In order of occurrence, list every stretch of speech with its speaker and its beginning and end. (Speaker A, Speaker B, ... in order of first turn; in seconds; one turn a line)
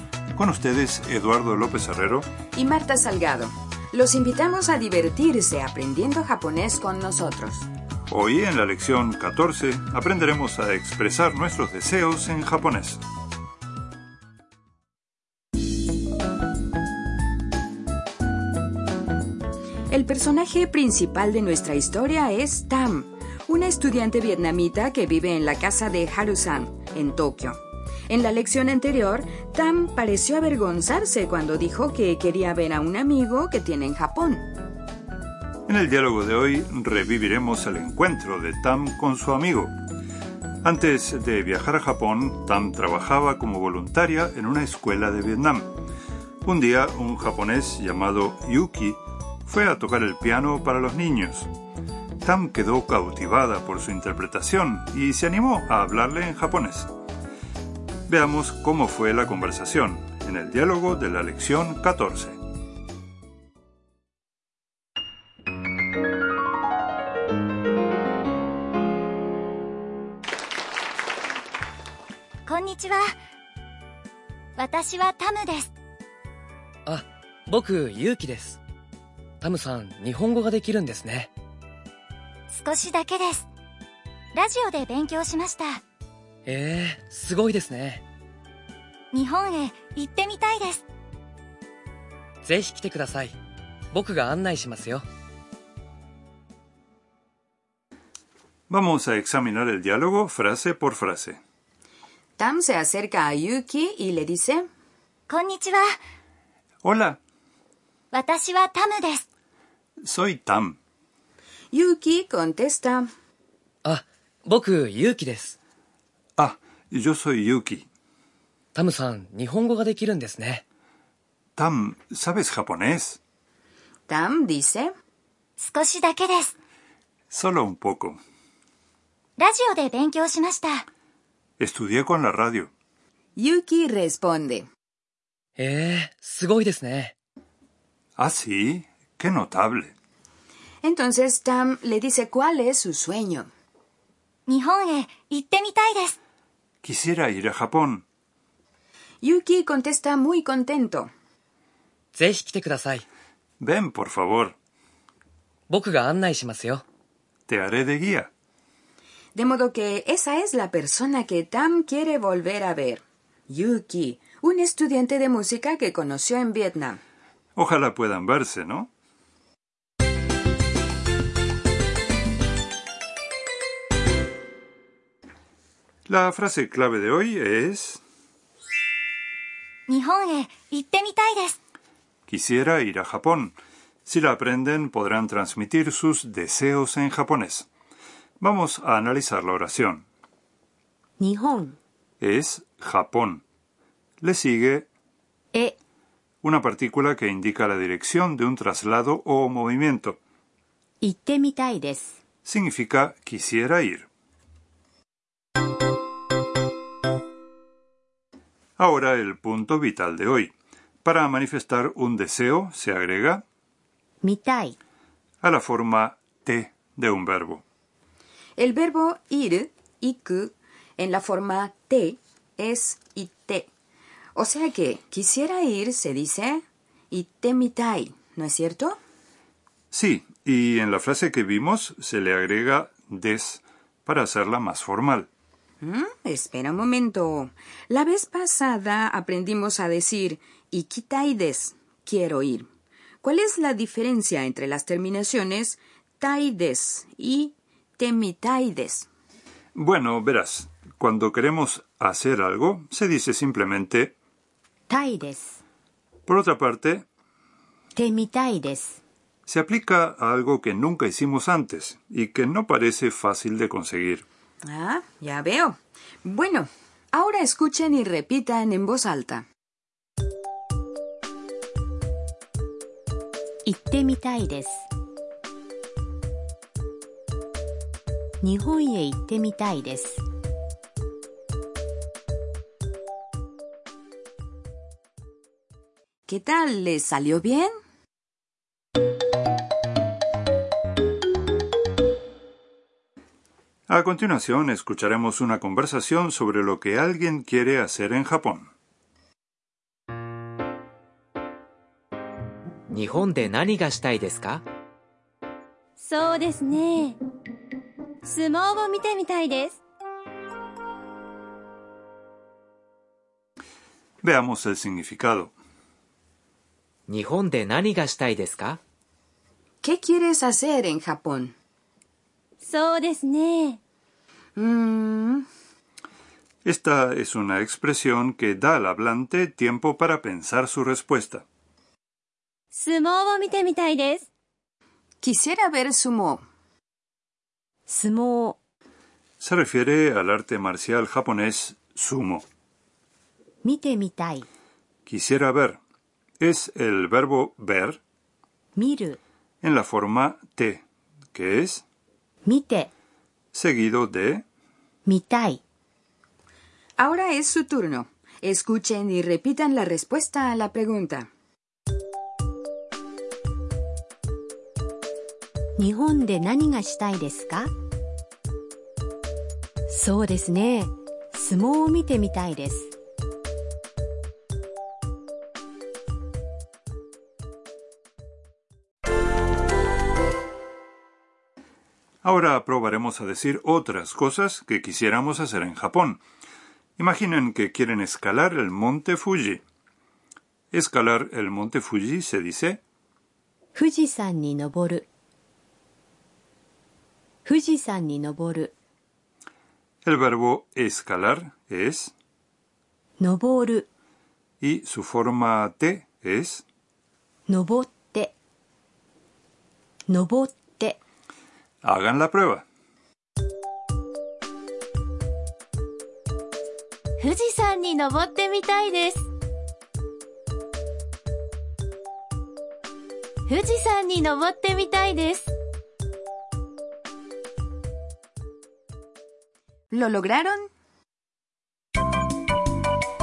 Speaker A: 0.3-2.3
Speaker B: 2.5-7.7
Speaker A: 8.1-13.0
Speaker B: 19.9-34.5
Speaker A: 35.7-39.7
Speaker A: 40.6-45.7
Speaker A: 46.4-51.5
Speaker A: 52.2-56.9
Speaker A: 58.1-62.4
Speaker C: 72.5-73.1
Speaker C: 74.6-75.7
Speaker D: 76.9-78.6
Speaker D: 79.4-81.3
Speaker C: 82.5-83.5
Speaker C: 84.3-85.8
Speaker D: 86.5-88.0
Speaker C: 89.1-90.8
Speaker D: 92.4-93.3
Speaker D: 93.9-95.0
Speaker A: 98.7-101.4
Speaker B: 102.4-104.7
Speaker C: 105.3-105.9
Speaker A: 106.8-107.2
Speaker C: 108.1-109.2
Speaker A: 110.0-110.8
Speaker B: 111.7-113.1
Speaker D: 113.9-115.5
Speaker A: 116.4-117.9
Speaker D: 118.8-120.6
Speaker A: 121.6-123.2
Speaker B: 124.1-124.9
Speaker C: 125.6-126.5
Speaker A: 127.3-128.2
Speaker C: 129.4-130.8
Speaker A: 131.6-132.7
Speaker B: 133.3-134.7
Speaker D: 135.6-137.1
Speaker A: 138.2-139.9
Speaker B: 140.8-143.5
Speaker C: 144.5-146.2
Speaker A: 146.8-148.0
Speaker B: 149.2-151.1
Speaker D: 152.2-153.0
Speaker A: 153.6-154.5
Speaker D: 155.7-156.8
Speaker A: 157.5-158.3
Speaker B: 159.3-167.0
Speaker A: 167.6-168.9
Speaker A: 176.1-178.0
Speaker C: 179.9-181.6
Speaker A: 182.3-187.7
Speaker A: 188.4-190.1
Speaker E: 191.2-191.8
Speaker A: 192.2-193.4
Speaker A: 194.2-194.9
Speaker A: 196.4-200.2
Speaker E: 201.0-202.2
Speaker A: 202.4-204.1
Speaker A: 208.8-210.5
Speaker A: 211.0-213.4
Speaker E: 214.2-214.8
Speaker A: 215.4-217.6
Speaker B: 218.6-223.7
Speaker B: 224.3-229.0
Speaker A: 229.9-235.3
Speaker B: 235.8-242.7
Speaker B: 243.2-249.1
Speaker A: 249.7-254.2
Speaker E: 254.9-255.6
Speaker A: 256.3-257.1
Speaker E: 257.9-259.0
Speaker A: 259.5-264.2
Speaker B: 264.6-269.5
Speaker E: 273.6-274.9
Speaker E: 278.4-280.2
Speaker B: 286.3-287.7
Speaker A: 293.9-298.7
Speaker F: 302.9-304.6
Speaker G: 306.0-307.2
Speaker G: 308.2-309.8
Speaker A: 314.2-315.5
Speaker F: 317.1-318.8
Speaker B: 319.8-321.5
Speaker G: 322.6-323.8
Speaker B: 324.6-325.4
Speaker A: 326.6-331.4
Speaker G: 332.7-334.3
Speaker B: 335.2-336.4
Speaker E: 337.9-338.6
Speaker A: 339.4-342.5
Speaker E: 343.6-344.5
Speaker A: 345.1-345.8
Speaker A: 346.4-348.0
Speaker E: 348.8-349.2
Speaker A: 349.6-351.9
Speaker E: 352.4-352.9
Speaker A: 353.5-354.4
Speaker E: 355.1-355.6
Speaker B: 357.0-361.3
Speaker E: 365.8-367.7
Speaker E: 369.9-372.9
Speaker A: 382.2-386.2
Speaker A: 387.0-389.6
Speaker A: 390.7-392.8
Speaker E: 393.8-395.1
Speaker E: 397.4-398.7
Speaker A: 400.1-402.1
Speaker E: 403.2-403.9
Speaker A: 404.6-406.6
Speaker E: 407.5-408.3
Speaker E: 410.1-411.0
Speaker A: 411.8-412.6
Speaker G: 417.2-419.3
Speaker G: 423.5-425.5
Speaker B: 429.9-430.7